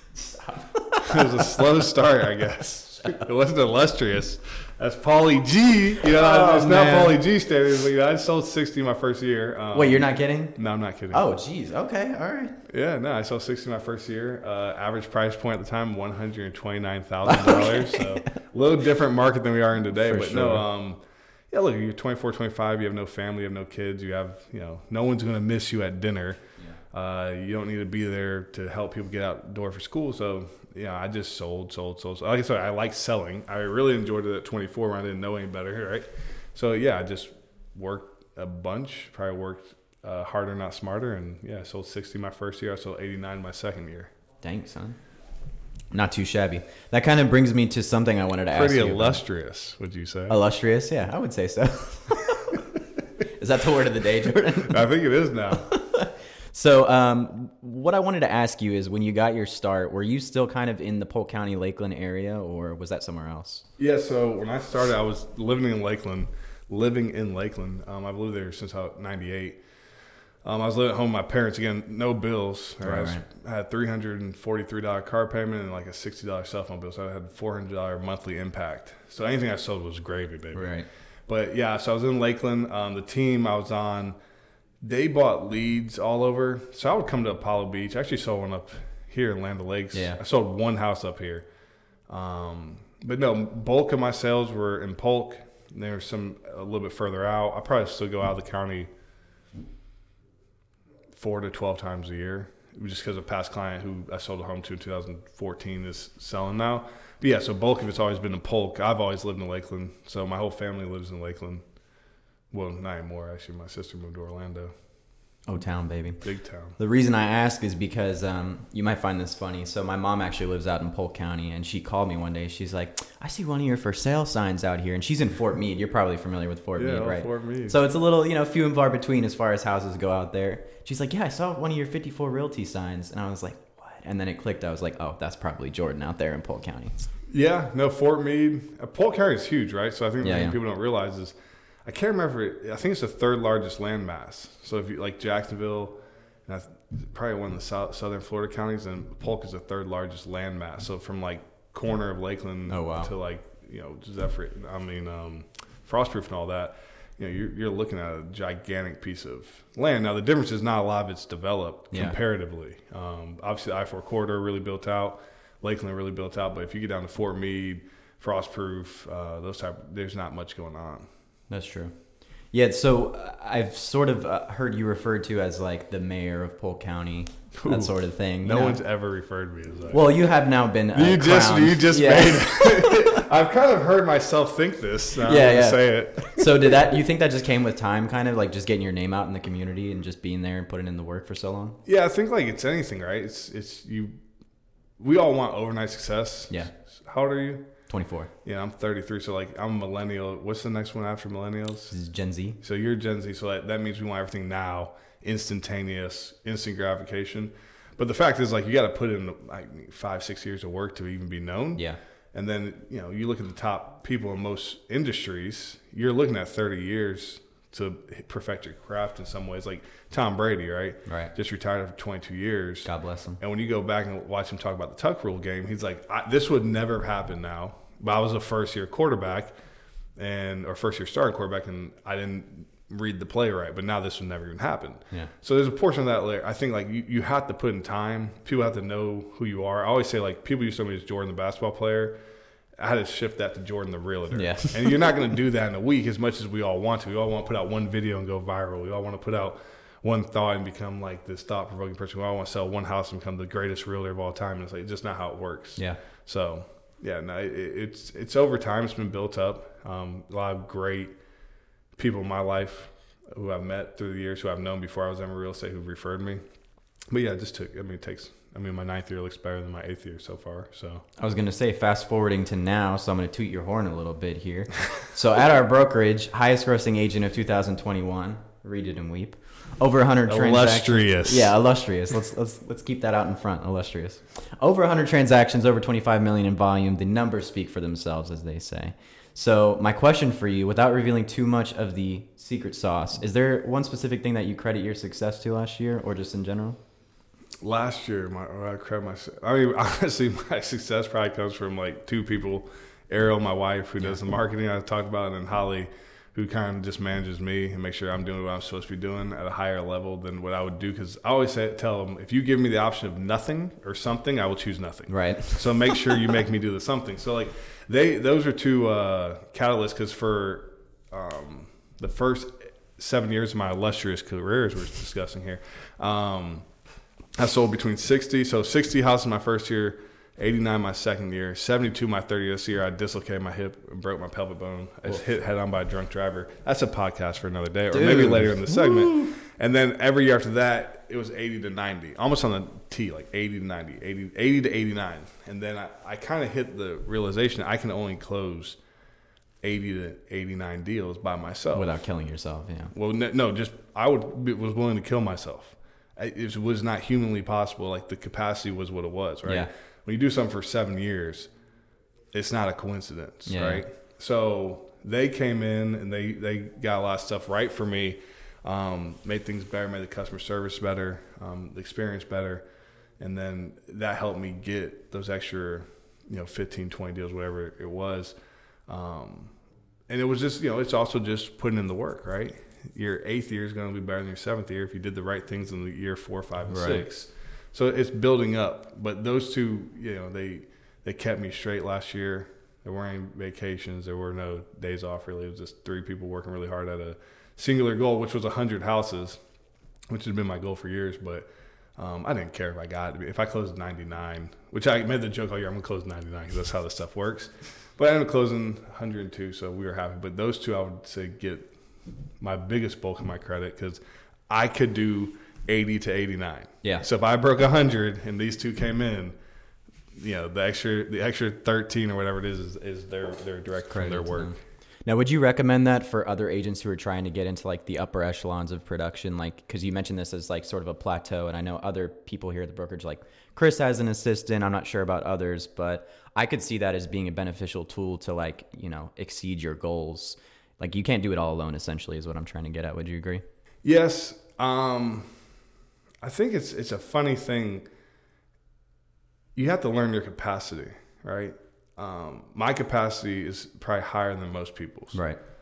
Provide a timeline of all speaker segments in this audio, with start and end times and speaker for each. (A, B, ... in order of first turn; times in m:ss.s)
0:00.2-0:01.7 A
0:01.0-0:11.2 B
0:06.0-0:07.2 A
0:09.7-0:10.6 A
0:11.1-0:12.6 A
0:12.7-0:26.4 B
0:17.3-0:18.4 A
0:20.0-0:20.7 A
0:26.9-0:44.1 B
0:44.4-0:45.0 A
0:45.9-0:49.2 A
0:48.5-0:50.4 B
0:50.3-0:52.7 A
0:53.4-0:54.9 A
0:54.7-0:55.7 B
0:55.5-1:03.6 A
1:03.8-1:09.6 B
1:10.4-1:24.2 B
1:12.8-1:13.2 A
1:20.5-1:20.9 A
1:24.8-1:31.5 B
1:29.9-1:30.2 A
1:32.1-1:38.9 B
1:41.1-1:51.6 B
1:52.5-1:54.7 B
1:55.5-1:56.2 A
1:56.2-1:56.8 B
1:56.8-2:17.0 A
2:06.8-2:07.8 B
2:17.3-2:51.1 B
2:20.2-2:20.6 A
2:32.7-2:33.1 A
2:41.9-2:42.2 A
2:51.5-2:52.0 A
2:52.5-2:58.8 A
2:57.6-3:00.1 B
2:59.9-3:03.2 A
3:00.9-3:06.9 B
3:05.2-3:11.8 A
3:11.8-3:14.2 B
3:15.0-3:17.7 B
3:17.9-3:18.3 A
3:18.4-3:22.0 B
3:21.9-3:22.6 A
3:22.6-3:49.5 B
3:41.1-3:41.3 A
3:42.8-3:43.4 A
3:50.2-4:02.2 B
4:02.8-4:21.2 B
4:04.3-4:04.9 A
4:22.0-4:26.4 B
4:27.1-4:31.0 B
4:31.2-4:56.8 A
4:40.3-4:41.5 B
4:57.6-5:26.7 B
5:15.1-5:15.9 A
5:27.4-5:48.8 B
5:37.9-5:39.3 A
5:49.6-5:51.9 B
5:51.7-5:52.9 A
5:52.9-6:01.5 B
5:59.4-5:59.7 A
6:02.3-6:12.6 B
6:03.5-6:03.8 A
6:13.2-6:18.3 B
6:18.9-6:19.5 B
6:20.1-6:39.4 B
6:26.7-6:27.0 A
6:40.1-6:51.8 B
6:52.4-6:59.4 B
7:00.2-7:04.6 B
7:03.9-7:23.4 A
7:23.8-7:25.4 B
7:26.2-7:27.9 B
7:29.6-7:35.2 B
7:35.1-7:35.4 A